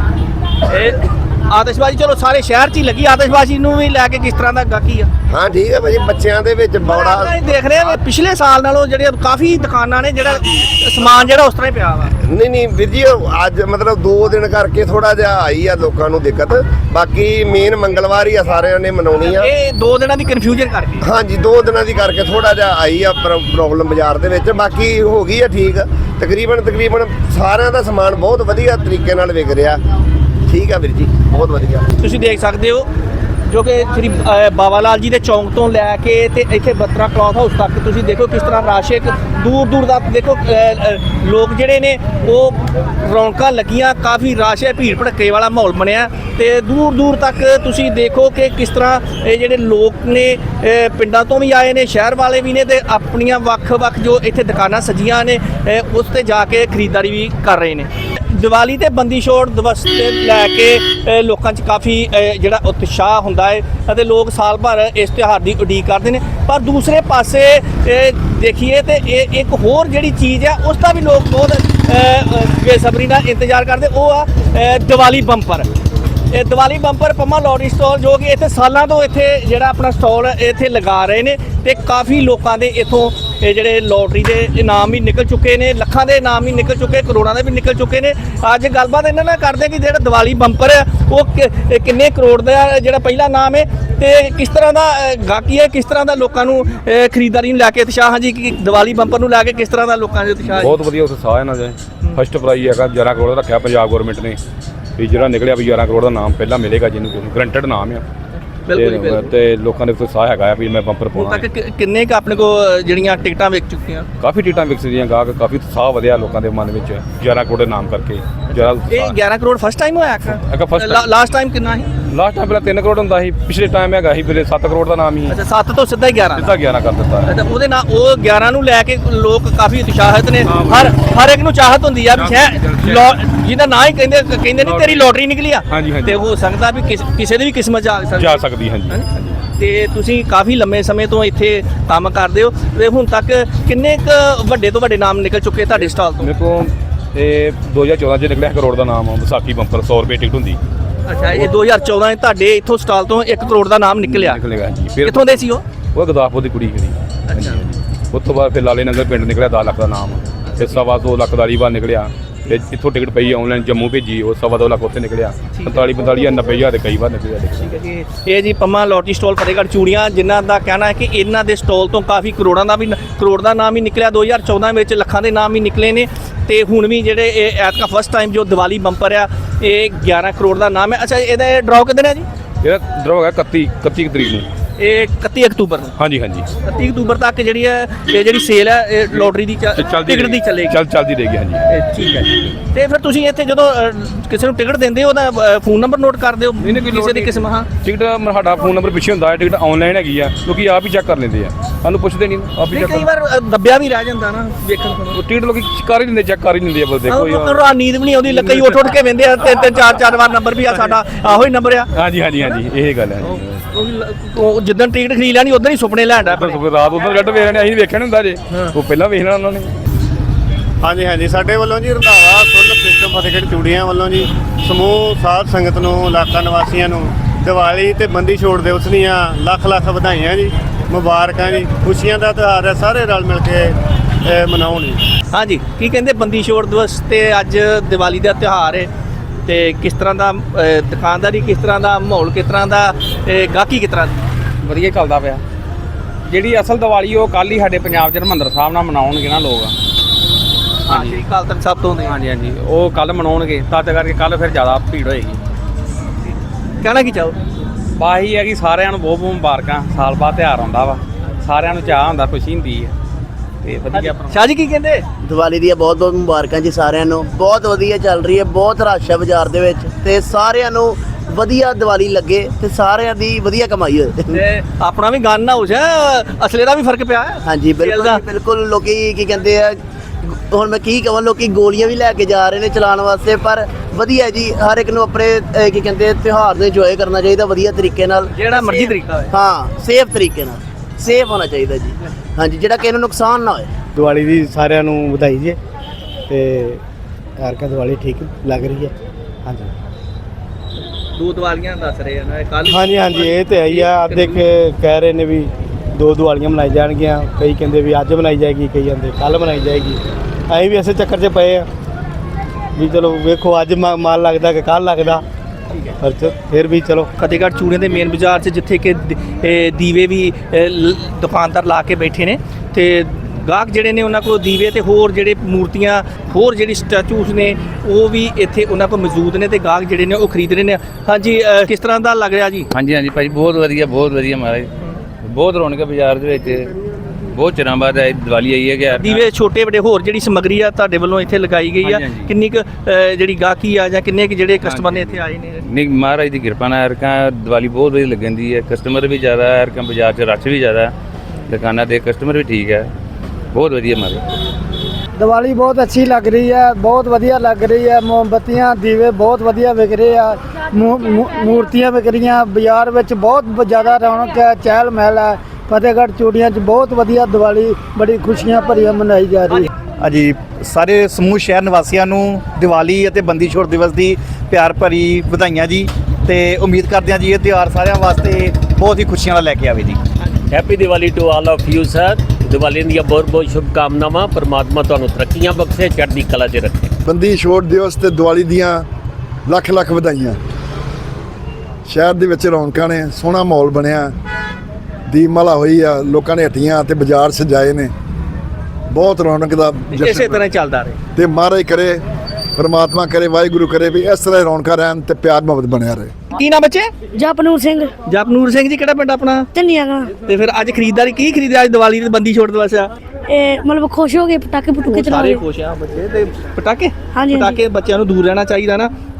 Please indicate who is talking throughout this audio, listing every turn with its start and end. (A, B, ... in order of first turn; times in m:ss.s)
0:00.7-0:05.1 A
0:05.3-0:08.0 B
0:06.8-0:12.2 A
0:12.3-0:19.5 B
0:19.2-0:21.1 A
0:21.0-0:29.8 B
0:30.4-0:31.9 B
0:32.0-0:32.9 A
0:33.5-1:15.7 A
1:16.3-1:40.8 A
1:40.5-1:44.4 C
1:45.0-1:48.0 C
1:48.7-1:49.3 A
1:48.7-1:51.5 C
1:51.1-1:54.1 A
1:54.2-1:59.2 C
1:58.6-2:01.9 A
2:00.3-2:01.1 C
2:02.1-2:05.4 C
2:05.3-2:06.5 A
2:06.3-2:07.4 C
2:07.3-2:19.1 A
2:10.4-2:11.0 C
2:12.1-2:13.2 C
2:14.6-2:15.1 C
2:15.7-2:16.2 C
2:18.2-2:19.4 C
2:19.6-2:26.3 A
2:26.2-2:30.6 C
2:31.1-2:34.4 A
2:34.0-2:47.8 C
2:35.0-2:35.6 A
2:37.3-2:37.6 A
2:40.4-2:40.8 A
2:45.5-2:46.1 A
2:47.6-3:02.3 A
3:02.6-3:04.5 C
3:04.8-3:06.0 A
3:06.0-3:06.5 C
3:06.6-3:10.8 A
3:09.1-3:11.6 C
3:11.7-3:17.7 A
3:16.6-3:23.1 C
3:22.7-3:25.2 A
3:25.1-3:27.6 C
3:27.1-3:31.9 A
3:28.3-3:29.0 C
3:32.0-3:33.7 C
3:33.2-3:36.6 A
3:36.3-3:39.7 C
3:40.8-3:53.7 D
3:54.2-3:55.0 D
3:55.3-3:58.9 A
3:59.5-4:04.3 A
4:04.6-4:05.4 E
4:06.3-4:09.7 E
4:10.9-4:12.1 A
4:10.9-4:11.2 E
4:12.1-4:15.4 E
4:16.8-4:17.6 A
4:18.0-4:22.9 E
4:23.6-4:24.4 E
4:23.9-4:25.0 A
4:25.2-4:34.4 F
4:34.3-4:38.2 A
4:37.4-4:48.3 F
4:48.3-4:49.3 A
4:49.3-4:53.7 F
4:54.0-4:55.6 D
4:56.3-4:56.8 D
4:57.4-4:58.9 D
5:00.8-5:04.5 A
5:02.7-5:10.0 D
5:10.6-5:11.6 D
5:12.8-5:15.2 D
5:16.0-5:17.1 D
5:17.2-5:32.7 A
5:32.7-5:34.7 G
5:35.2-5:36.7 G
5:37.3-5:39.2 G
5:38.9-5:45.6 A
5:41.9-5:42.3 G
5:44.6-5:44.9 G
5:45.6-5:50.9 G
5:51.5-5:52.9 G
5:53.5-5:54.2 G
5:55.2-6:09.7 H
6:10.0-6:20.0 I
6:20.5-6:26.9 J
6:27.0-6:28.9 K
6:29.5-6:30.4 K
6:31.9-6:34.1 K
6:35.1-6:37.9 K
6:38.9-6:40.4 K
6:39.9-6:41.0 A
6:41.2-6:42.0 K
6:42.6-6:46.1 K
6:46.4-6:46.9 A
6:47.2-6:47.9 L
6:48.1-6:49.4 A
6:49.5-6:50.2 L
6:50.3-6:52.9 A
6:53.3-6:55.4 L
6:54.9-6:58.9 A
6:57.1-6:57.6 L